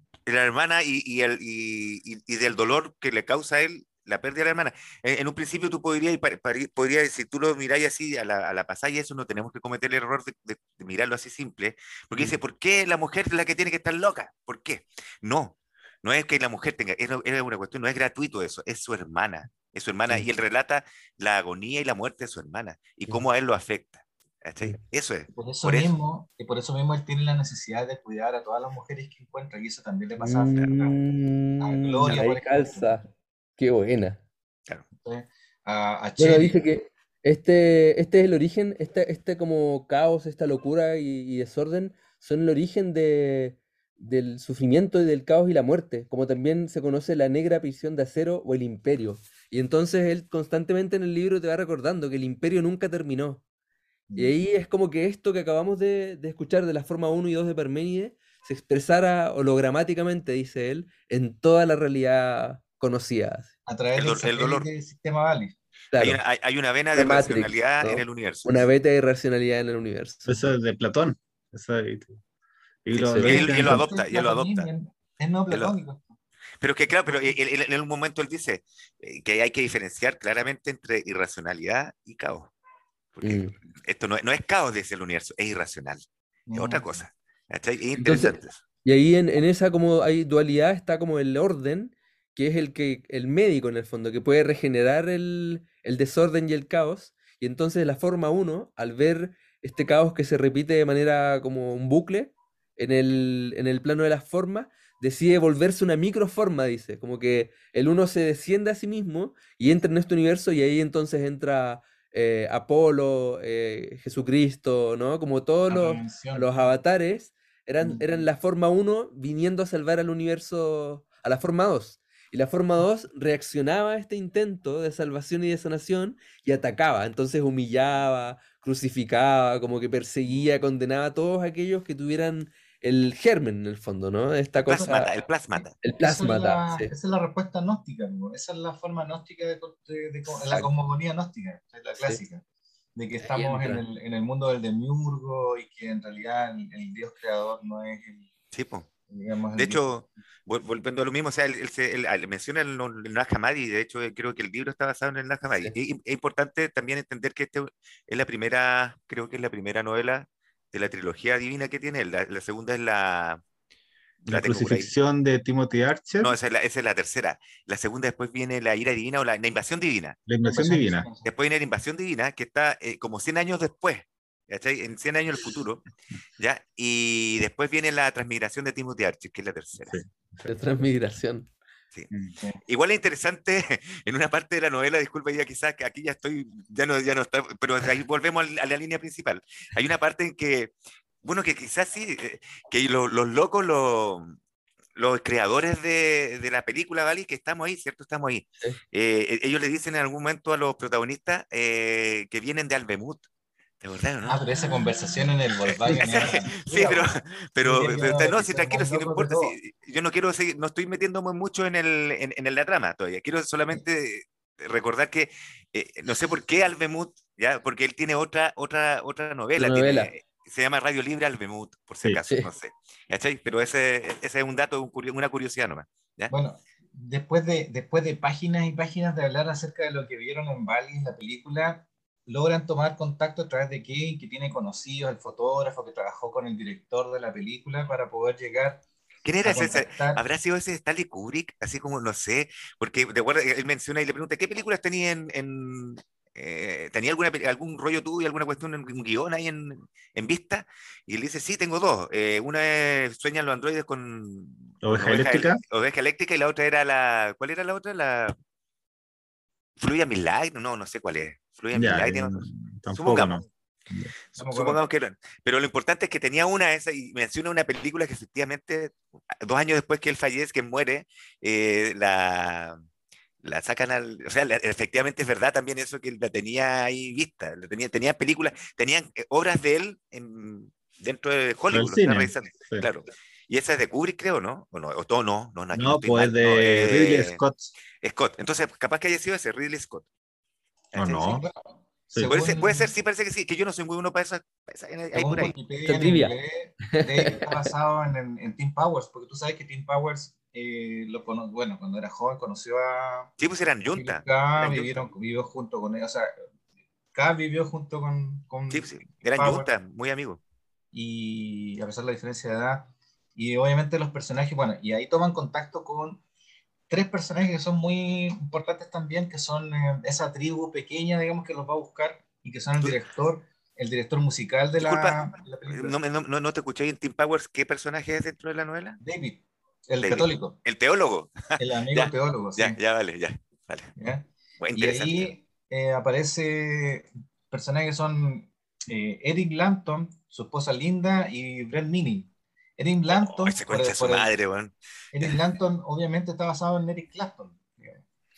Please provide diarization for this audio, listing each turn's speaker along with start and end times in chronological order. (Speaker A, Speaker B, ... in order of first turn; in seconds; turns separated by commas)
Speaker A: 0.3-25.9, Speaker B: 25.3-31.0, Speaker C: 30.2-34.2, Speaker B: 31.6-32.9, Speaker B: 35.0-36.6, Speaker C: 36.2-53.4, Speaker B: 54.1-54.4, Speaker C: 54.2-63.5, Speaker B: 63.7-65.5, Speaker A: 64.0-64.7, Speaker C: 65.9-66.2, Speaker A: 66.0-68.7, Speaker C: 66.9-70.4, Speaker D: 70.3-72.2, Speaker D: 72.8-73.9, Speaker C: 73.0-73.4, Speaker A: 73.0-74.7, Speaker B: 73.3-76.1, Speaker A: 75.5-75.8, Speaker A: 76.6-82.5, Speaker A: 83.1-88.6, Speaker C: 83.2-83.5, Speaker B: 86.5-87.0, Speaker C: 88.0-135.1, Speaker B: 115.7-116.5, Speaker B: 117.8-118.2, Speaker A: 134.6-135.7, Speaker B: 135.5-142.4, Speaker C: 135.8-136.9, Speaker B: 143.0-148.3, Speaker C: 143.3-143.8, Speaker A: 148.5-148.9, Speaker B: 149.1-149.8, Speaker A: 149.6-163.4, Speaker D: 164.3-166.3, Speaker A: 164.3-164.9, Speaker A: 166.2-170.2, Speaker D: 170.3-171.1, Speaker B: 170.4-171.3, Speaker A: 171.2-175.8, Speaker A: 176.4-180.0, Speaker D: 179.9-180.5, Speaker C: 180.4-181.5, Speaker A: 182.7-194.3, Speaker A: 195.0-203.2, Speaker A: 203.8-204.7, Speaker B: 204.3-209.6, Speaker A: 205.7-226.3, Speaker C: 219.6-220.1, Speaker B: 226.3-238.8, Speaker A: 239.2-258.4, Speaker B: 239.4-240.2, Speaker D: 254.8-255.6, Speaker A: 259.8-263.4, Speaker D: 261.7-264.1, Speaker A: 264.3-272.8, Speaker B: 264.4-264.8, Speaker A: 273.4-287.4, Speaker D: 281.7-282.9, Speaker D: 285.7-287.7, Speaker A: 288.0-290.1, Speaker A: 290.9-291.4, Speaker D: 291.0-291.4, Speaker B: 291.2-292.9, Speaker A: 292.2-295.5, Speaker B: 295.1-303.3, Speaker C: 295.9-296.4, Speaker C: 296.9-297.7, Speaker A: 303.4-305.0, Speaker B: 303.9-306.3, Speaker B: 307.1-309.7, Speaker A: 308.7-310.4, Speaker B: 310.9-316.2, Speaker B: 316.9-326.0, Speaker A: 324.8-329.0, Speaker B: 329.0-330.6, Speaker A: 330.0-333.9, Speaker B: 331.6-332.8, Speaker B: 334.0-344.3, Speaker A: 334.6-335.3, Speaker A: 343.1-345.4, Speaker B: 345.1-348.0